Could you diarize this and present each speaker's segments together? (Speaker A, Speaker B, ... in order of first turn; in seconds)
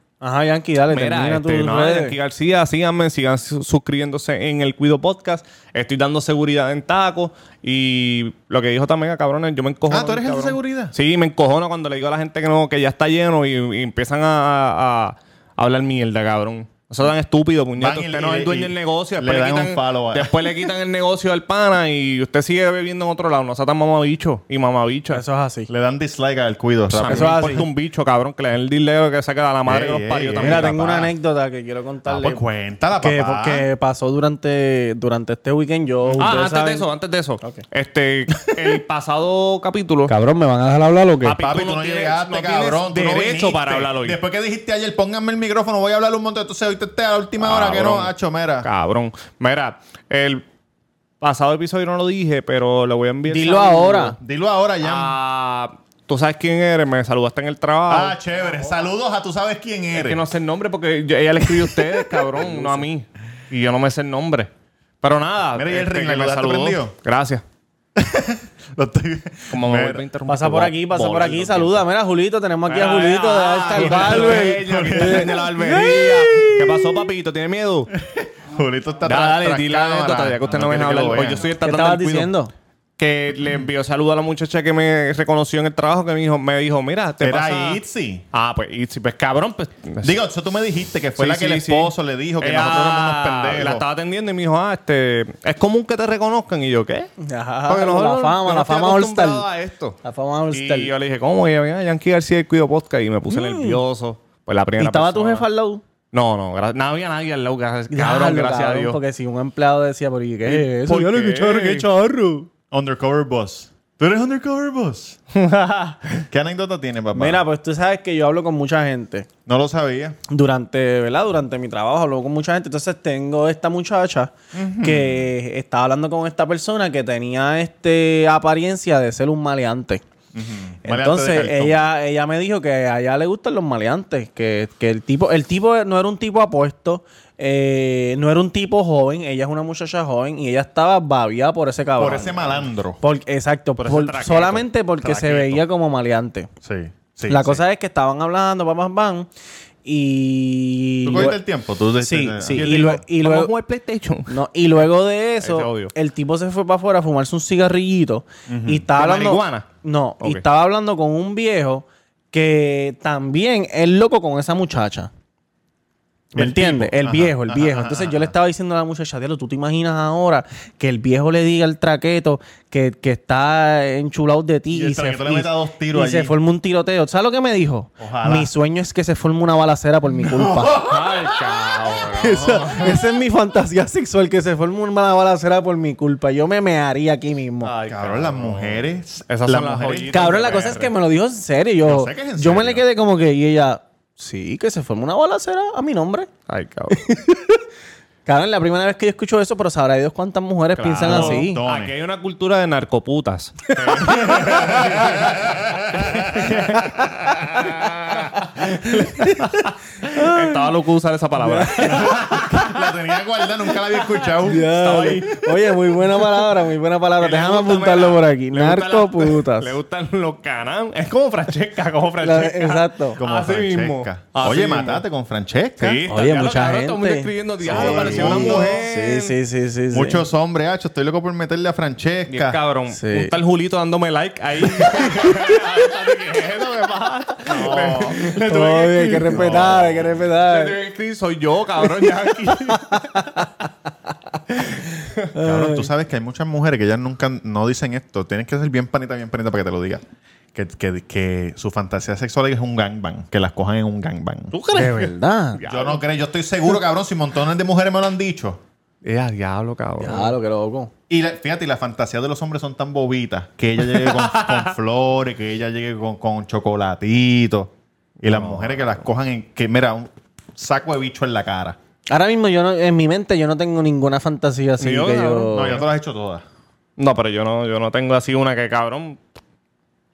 Speaker A: 0.2-2.1, 25.1-25.7, 27.0-27.7, 30.4-32.4, 33.0-36.9, 40.1-41.4, 53.3-54.1, 70.2-76.5, 81.6-82.5, 97.2-99.4, 100.0-100.9, 103.3-103.8, 104.8-105.8, 107.9-112.5, 117.1-119.3, 120.3-130.0, 130.8-146.5, 147.3-149.3, 149.8-151.4, 152.0-153.5, 154.3-165.1, 166.3-180.8, 182.0-187.7, 190.1-196.3, 196.9-197.6, 198.2-201.6, 204.1-204.8, 206.3-206.8, 208.4-210.7, 211.4-212.7, 214.4-219.8, 222.2-223.2, 226.1-230.2, 232.9-233.3, 234.7-235.6, 237.6-240.8, 242.0-243.7, 245.3-245.9, 254.6-255.6, 260.0-260.9, 272.1-275.8
Speaker B: 0.9-25.2, 26.9-31.1, 36.2-40.1, 41.2-44.2, 47.4-50.4, 51.2-54.2, 54.8-58.2, 59.9-64.5, 65.0-67.4, 69.5-71.8, 72.7-77.9, 79.0-82.3, 83.0-87.8, 88.3-90.2, 91.2-97.1, 97.7-100.0, 100.5-105.4, 106.1-109.0, 110.5-111.8, 115.4-116.1, 143.8-145.6, 152.6-154.3, 155.4-155.9, 158.9-159.7, 180.8-183.0, 187.6-190.9, 196.5-197.0, 200.8-212.2, 214.6-215.6, 217.2-225.0, 225.8-229.3, 232.3-243.2, 254.5-255.9, 259.0-260.3, 263.8-264.7, 268.2-269.0, 274.8-275.8, 277.0-279.2
Speaker C: 9.9-10.9, 17.8-20.5, 25.7-27.7, 29.6-31.1, 32.0-33.7, 36.0-36.4, 41.4-48.7, 54.2-55.2, 57.9-60.2, 61.7-62.7, 65.5-66.9, 68.0-70.0, 73.7-77.0, 77.9-81.5, 87.2-88.2, 90.0-93.8, 98.5-99.8, 112.7-115.2, 116.3-117.4, 119.5-120.2, 124.5-125.3, 130.3-131.8, 142.0-143.0, 146.6-147.6, 151.0-152.8, 158.5-158.8, 166.3-168.3, 174.7-176.3, 178.0-178.5, 180.1-181.4, 187.9-190.1, 191.8-192.8, 201.0-201.9, 204.1-207.8, 211.8-214.8, 223.2-226.0, 227.6-228.9, 229.9-232.6, 237.4-238.2, 239.4-239.8, 245.4-254.5, 255.7-258.6, 261.1-271.8, 275.5-276.4